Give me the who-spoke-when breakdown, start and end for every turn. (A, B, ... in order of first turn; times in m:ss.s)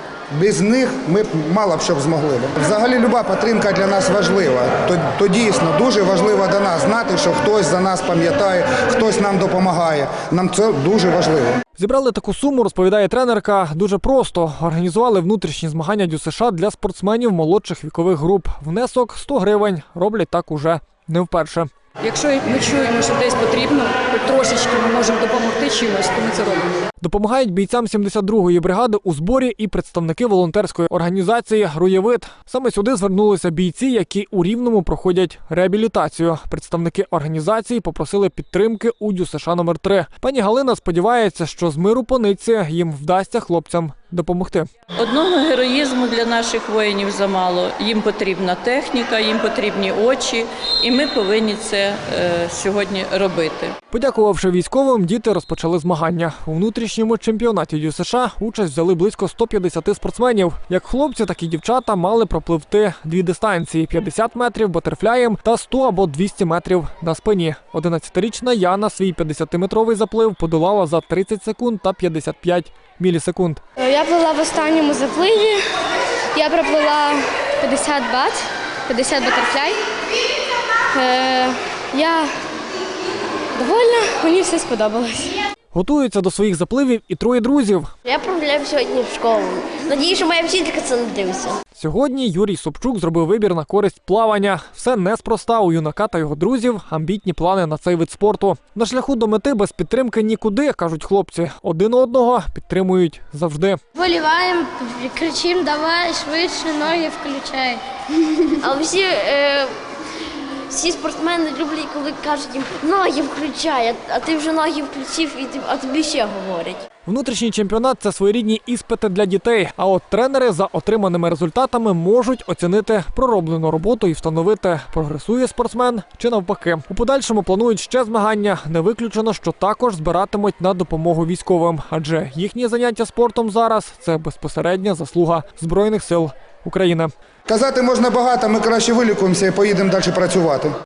0:00.3-0:11.6 A
0:11.8-0:21.7 B
0:22.3-0:26.6 C
0:27.0-0:44.7 B
0:45.0-0:53.8 D
0:53.9-1:13.6 B
1:13.8-1:15.6 E
1:16.3-1:19.8 E
1:20.9-1:22.3 E
1:23.6-1:25.4 E
1:25.7-1:27.9 B
1:28.0-1:31.6 F
1:31.7-1:43.8 B
1:44.0-1:47.8 E
1:48.2-1:49.8 F
1:50.7-1:56.8 F
1:57.1-2:17.1 B
2:17.5-2:20.7 A